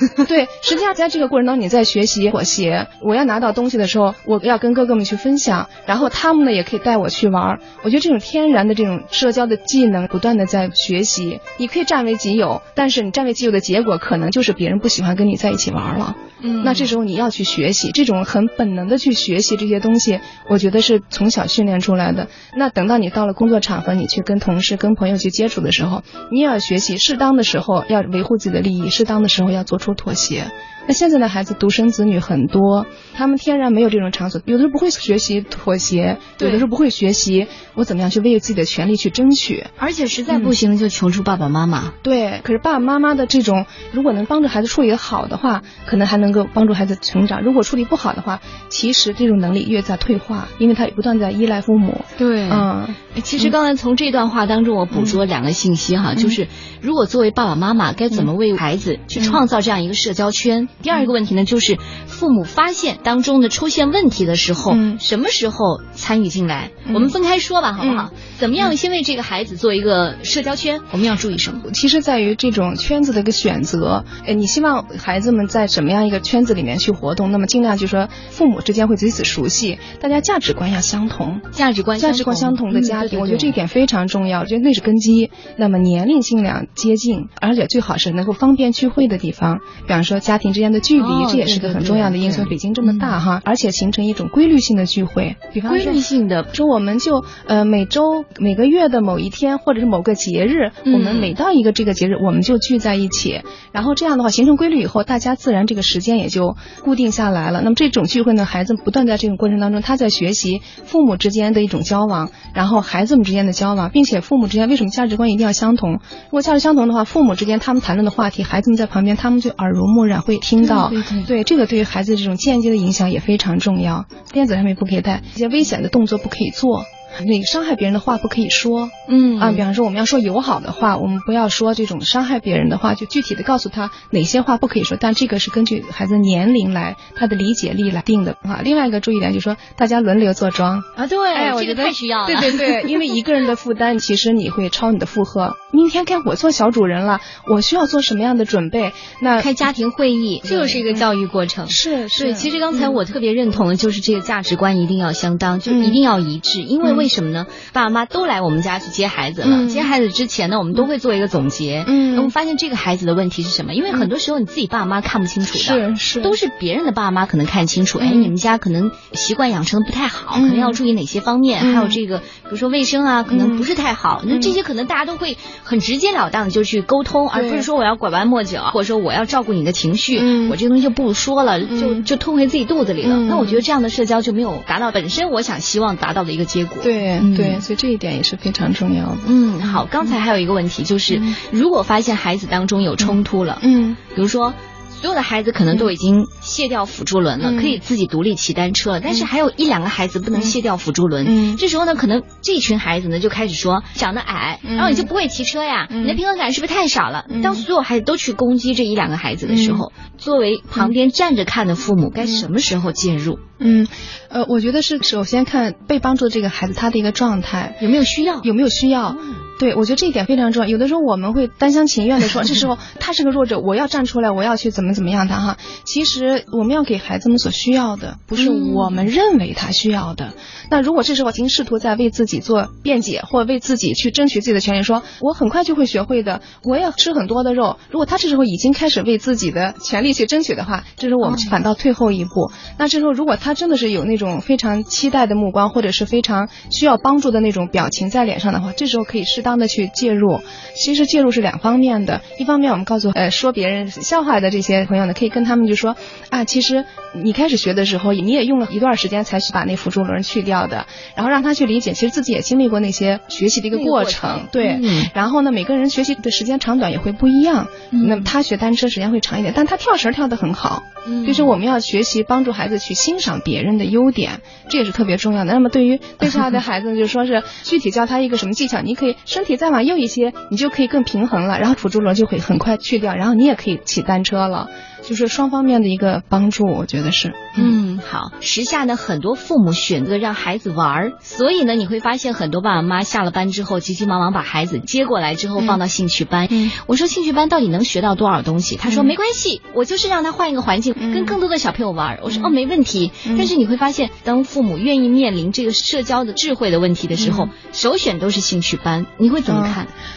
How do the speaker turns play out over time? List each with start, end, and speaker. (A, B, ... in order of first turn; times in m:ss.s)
0:00.2-0:39.7 A
0:16.4-0:16.9 B
0:36.4-0:36.7 B
0:39.8-0:42.0 B
0:40.3-0:40.6 A
0:42.0-0:53.6 A
0:52.2-1:11.7 B
0:54.9-0:55.2 A
0:59.2-0:59.4 A
1:04.7-1:05.0 A
1:06.9-1:07.2 A
1:07.8-1:08.7 A
1:11.6-1:21.4 A
1:21.5-1:23.6 B
1:22.0-2:29.6 A
1:31.0-1:33.2 B
1:35.7-1:36.5 B
1:40.8-1:41.4 B
2:00.6-2:01.3 B
2:09.1-2:09.6 B
2:21.0-2:23.0 B
2:29.4-3:07.6 B
2:30.4-2:31.1 A
2:31.7-2:33.0 A
2:35.7-2:36.0 A
2:36.8-2:37.1 A
2:39.4-2:39.9 A
2:41.8-2:42.3 A
2:45.5-2:46.4 A
2:48.0-2:48.4 A
2:50.3-2:50.8 A
2:51.6-2:52.0 A
2:53.3-2:53.7 A
2:54.3-2:54.6 A
2:57.3-2:57.7 A
3:00.2-3:00.6 A
3:01.7-3:02.1 A
3:03.0-3:03.6 A
3:06.8-3:10.2 A
3:09.2-3:33.4 B
3:11.1-3:11.4 A
3:13.0-3:14.0 A
3:17.4-3:17.8 A
3:21.2-3:21.6 A
3:24.6-3:25.1 A
3:25.9-3:26.2 A
3:27.3-3:27.7 A
3:29.5-3:29.9 A
3:32.2-3:32.5 A
3:33.6-3:37.8 A
3:37.8-3:38.5 B
3:38.4-4:47.8 A
3:48.4-3:49.1 B
4:01.2-4:01.6 B
4:23.7-4:25.1 B
4:27.9-4:28.3 B
4:31.0-4:31.5 B
4:47.6-5:09.9 B
4:55.6-4:55.8 A
4:56.5-4:56.8 A
4:58.8-4:59.2 A
5:01.0-5:01.4 A
5:02.3-5:02.6 A
5:03.2-5:03.5 A
5:07.2-5:07.5 A
5:09.5-5:09.8 A